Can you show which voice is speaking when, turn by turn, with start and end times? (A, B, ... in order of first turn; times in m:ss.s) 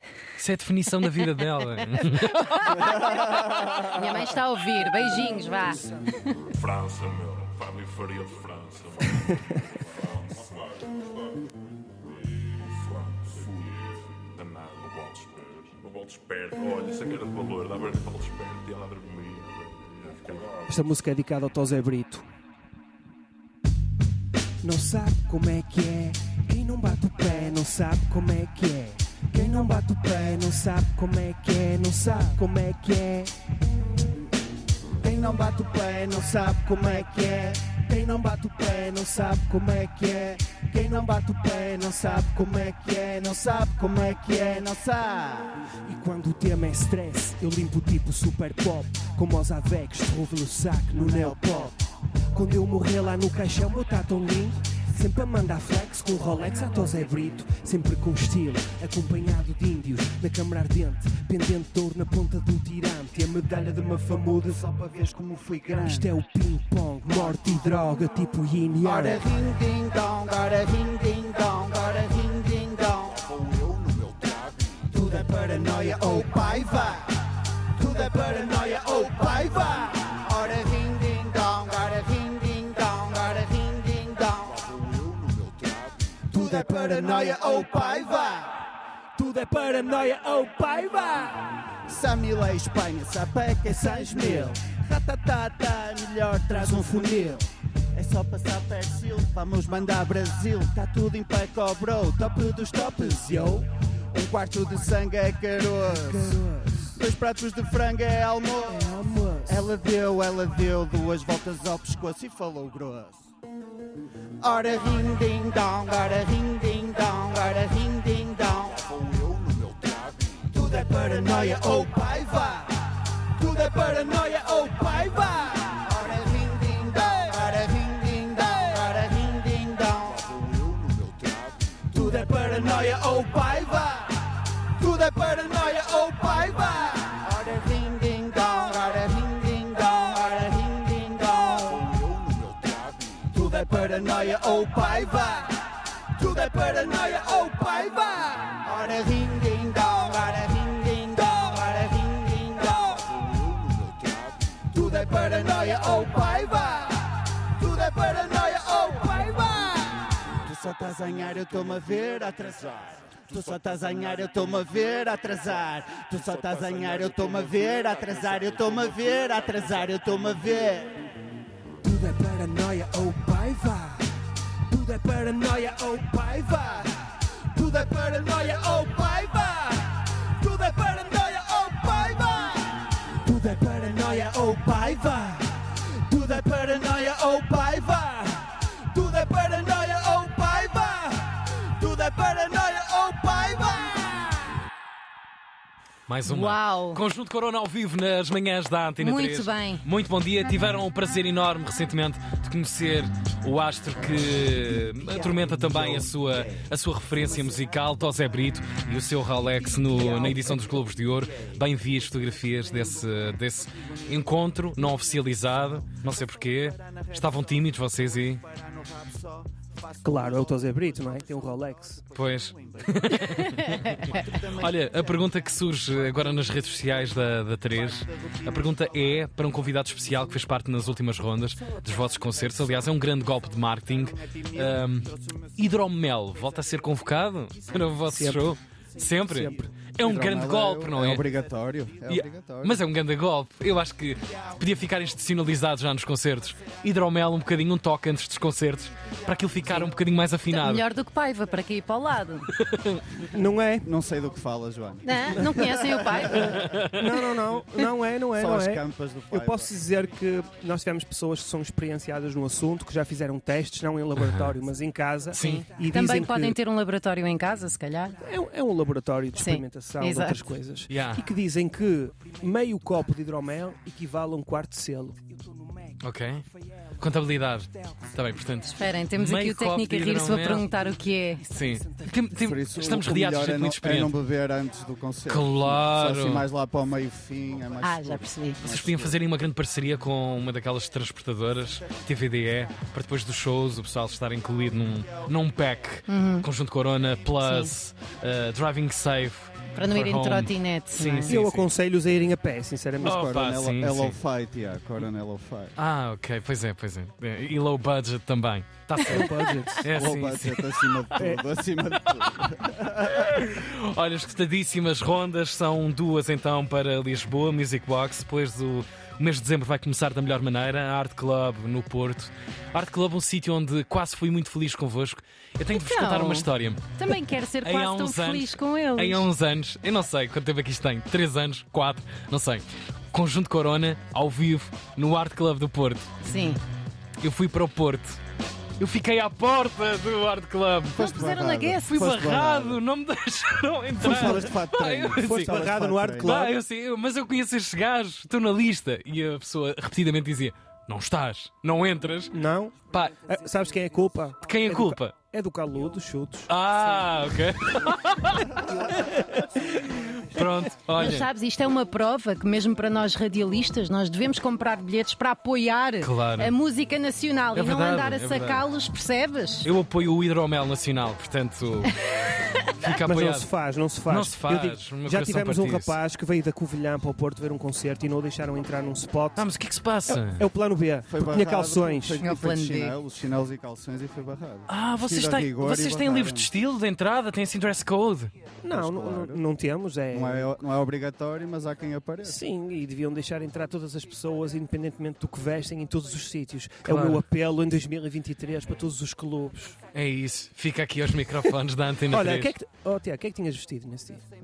0:00.4-0:02.9 A
0:02.6-0:05.9 B
0:07.8-0:08.8 C
0:14.4-0:20.4 C
0:20.7-0:22.2 D
0:24.6-0:33.3 D
0:35.0-0:37.6 E
0:36.8-0:41.2 D
0:40.4-0:45.6 E
0:45.9-0:51.8 D
0:50.9-0:51.4 E
0:52.3-1:04.6 D
1:04.5-1:06.1 E
1:05.7-1:09.3 D
1:08.8-1:17.2 E
1:17.8-1:25.7 E
1:26.3-1:28.1 D
1:26.3-1:28.6 E
1:29.2-1:31.5 D
1:31.9-1:46.4 E
1:33.6-1:34.6 D
1:36.6-1:37.4 D
1:42.7-1:43.6 D
1:45.8-1:47.0 D
1:47.0-1:48.9 E
1:48.6-1:49.7 D
1:49.5-1:53.2 E
1:54.4-1:59.1 E
2:00.4-2:02.8 E
2:03.4-2:14.2 E
2:14.8-2:25.6 E
2:26.1-2:51.0 E
2:51.8-2:54.1 D
2:54.7-2:58.6 D
2:58.4-2:59.7 E
3:00.5-3:02.5 E
3:03.2-3:05.4 D
3:05.6-3:14.4 E
3:16.1-3:38.4 A
3:16.2-3:17.0 B
3:19.0-3:19.8 B
3:38.5-3:39.6 E
3:40.0-3:42.1 D
3:42.1-4:01.2 A
3:43.2-3:44.3 B
3:43.8-3:45.3 E
3:48.0-3:48.4 E
3:54.4-3:54.6 E
3:58.0-3:58.6 D
3:59.3-3:59.8 D
4:00.0-4:02.8 E
4:02.1-4:10.8 A
4:10.5-4:12.5 B
4:12.6-4:13.0 A
4:13.3-4:13.9 D
4:13.8-4:16.5 E
4:15.0-4:16.6 B
4:16.3-4:26.6 D
4:16.6-4:17.2 A
4:18.4-4:19.7 E
4:24.2-4:24.5 A
4:25.3-4:25.6 A
4:25.4-4:28.2 B
4:28.2-4:35.9 D
4:29.4-4:30.4 B
4:30.9-4:31.2 A
4:36.0-4:36.4 A
4:37.0-4:40.7 A
4:38.8-4:41.4 B
4:41.4-4:42.3 D
4:41.5-4:44.2 A
4:42.4-4:49.2 E
4:45.3-4:46.4 A
4:47.8-4:48.6 B
4:48.6-5:01.7 A
4:56.1-4:56.4 B
4:57.4-4:57.7 B
4:59.7-5:01.4 B
5:01.3-5:03.2 D
5:03.0-5:04.2 A
5:03.0-5:05.8 E
5:05.8-5:11.1 A
5:09.1-5:09.9 D
5:09.9-5:13.3 E
5:11.1-5:11.4 D
5:13.2-5:26.9 A
5:25.7-5:29.3 B
5:27.6-5:36.1 A
5:36.2-5:36.6 B
5:37.2-5:38.2 A
5:38.8-5:41.0 A
5:41.0-5:42.8 E
5:41.0-5:41.9 B
5:41.8-5:45.6 A
5:44.0-5:46.4 E
5:44.1-5:44.4 D
5:45.2-5:46.6 D
5:46.2-5:52.4 A
5:52.3-5:56.5 D
5:52.9-5:53.2 A
5:54.4-5:55.1 A
5:56.5-6:01.3 A
5:59.0-5:59.2 D
6:01.0-6:09.7 B
6:06.0-6:06.5 A
6:07.5-6:08.6 A
6:09.6-6:12.0 A
6:12.6-6:13.5 A
6:13.0-6:19.4 D
6:14.1-6:16.0 A
6:19.4-6:20.4 A
6:20.1-6:22.2 D
6:21.1-6:26.5 E
6:22.2-6:23.0 B
6:24.7-6:28.3 A
6:28.6-6:30.5 D
6:28.7-6:29.4 E
6:30.1-6:32.4 E
6:32.2-6:39.8 D
6:36.9-6:37.2 A
6:39.9-6:42.5 A
6:42.1-6:44.2 D